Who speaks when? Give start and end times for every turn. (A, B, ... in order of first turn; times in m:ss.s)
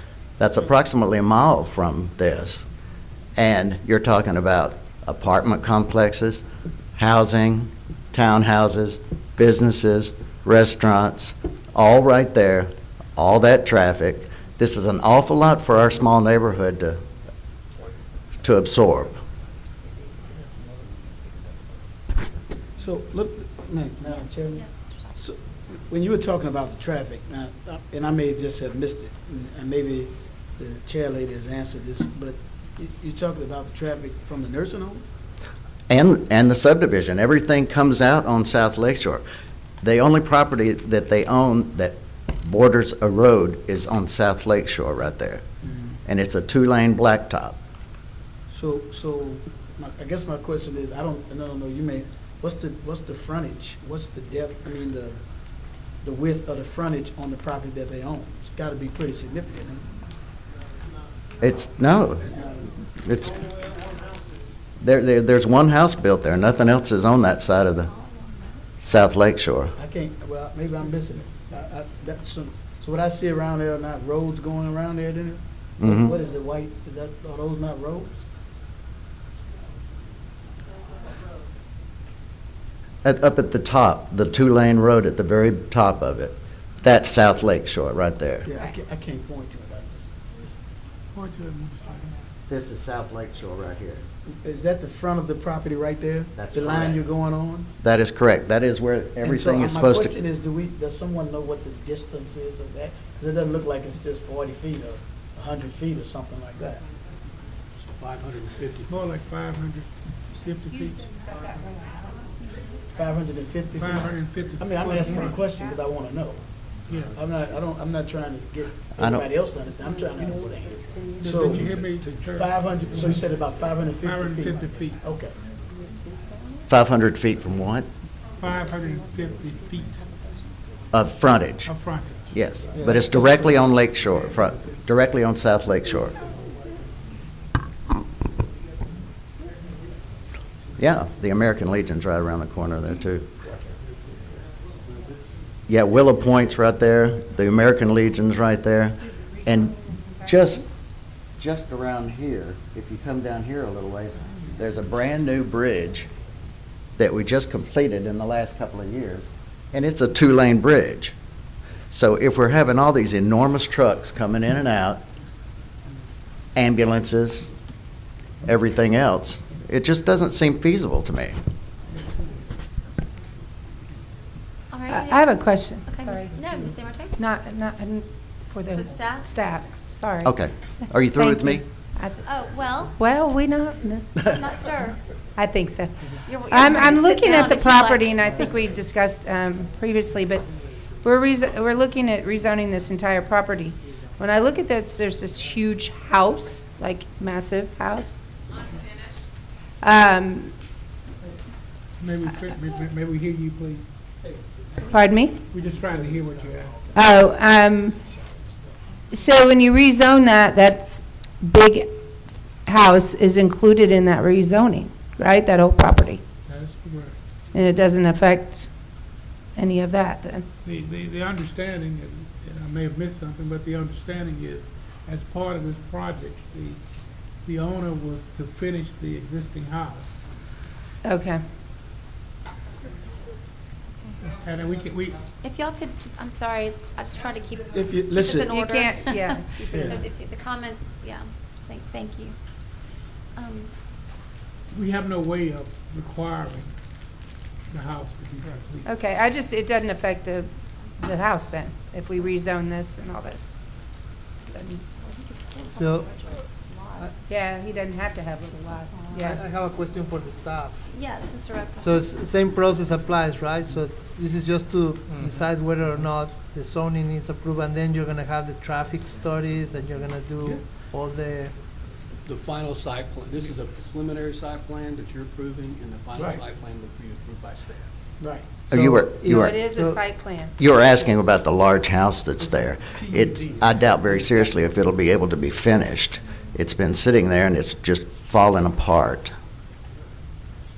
0:00.4-0:02.6 A
0:03.4-0:06.4 A
0:07.0-0:17.0 A
0:18.4-0:19.2 A
0:22.8-0:35.0 B
0:24.5-0:25.2 C
0:35.9-0:39.2 A
0:39.8-0:45.4 A
0:45.6-0:45.9 B
0:46.0-0:47.6 A
0:48.5-0:55.2 B
0:56.0-0:59.8 B
1:01.4-1:02.4 A
1:02.3-1:02.7 B
1:03.0-1:03.4 A
1:04.8-1:07.9 A
1:07.9-1:08.6 C
1:08.8-1:09.7 A
1:09.8-1:18.2 B
1:15.8-1:16.1 A
1:23.0-1:28.4 A
1:28.4-1:30.6 B
1:31.1-1:32.2 D
1:32.5-1:34.0 A
1:34.4-1:37.7 B
1:36.4-1:37.0 A
1:37.8-1:40.2 A
1:39.2-1:46.8 B
1:47.9-1:49.0 E
1:48.8-1:51.0 D
1:50.5-1:52.3 F
1:52.9-1:56.4 B
1:53.8-1:55.4 D
1:56.9-1:57.2 D
1:57.1-2:01.8 B
1:59.0-1:59.2 A
2:01.2-2:02.6 D
2:02.3-2:05.4 B
2:04.0-2:05.0 D
2:06.7-2:07.9 A
2:08.4-2:10.0 D
2:10.9-2:11.7 A
2:11.6-2:12.3 D
2:12.3-2:16.2 A
2:12.7-2:13.7 B
2:20.8-2:23.3 A
2:25.7-2:30.6 A
2:29.0-2:30.6 F
2:31.4-2:36.1 A
2:37.0-2:41.2 A
2:41.9-2:45.0 A
2:46.5-2:47.5 A
2:48.4-2:51.4 A
2:51.9-2:52.3 D
2:54.7-2:57.2 C
2:54.9-2:56.4 F
2:57.2-3:02.2 F
2:58.7-2:59.3 C
3:00.2-3:01.6 A
3:02.2-3:03.0 C
3:02.9-3:04.2 F
3:04.2-3:05.0 C
3:05.3-3:10.4 F
3:06.2-3:08.5 C
3:11.0-3:18.2 F
3:19.8-3:20.5 F
3:22.0-3:23.9 D
3:24.2-3:28.7 B
3:24.8-3:25.4 F
3:25.5-3:26.9 D
3:26.9-3:28.0 F
3:29.1-3:31.9 F
3:32.6-3:36.2 F
3:36.5-3:37.2 D
3:37.5-3:38.7 F
3:39.6-3:40.4 F
3:40.6-3:46.8 D
3:47.4-3:50.2 D
3:51.0-3:51.4 F
3:54.3-3:55.2 D
3:55.4-4:02.4 C
3:57.7-3:58.5 B
3:58.4-4:00.0 F
3:59.7-4:00.0 B
4:03.4-4:03.7 C
4:04.7-4:06.7 D
4:07.7-4:08.9 D
4:08.8-4:13.6 F
4:14.5-4:14.8 F
4:15.0-4:17.1 C
4:15.7-4:16.4 G
4:17.3-4:19.4 F
4:18.9-4:19.4 C
4:19.1-4:20.8 G
4:20.9-4:22.1 C
4:21.8-4:31.5 G
4:32.2-4:37.9 E
4:36.2-4:36.4 B
4:38.2-4:38.5 B
4:38.7-4:39.6 A
4:38.7-4:40.0 G
4:39.2-4:40.6 F
4:40.6-4:49.3 A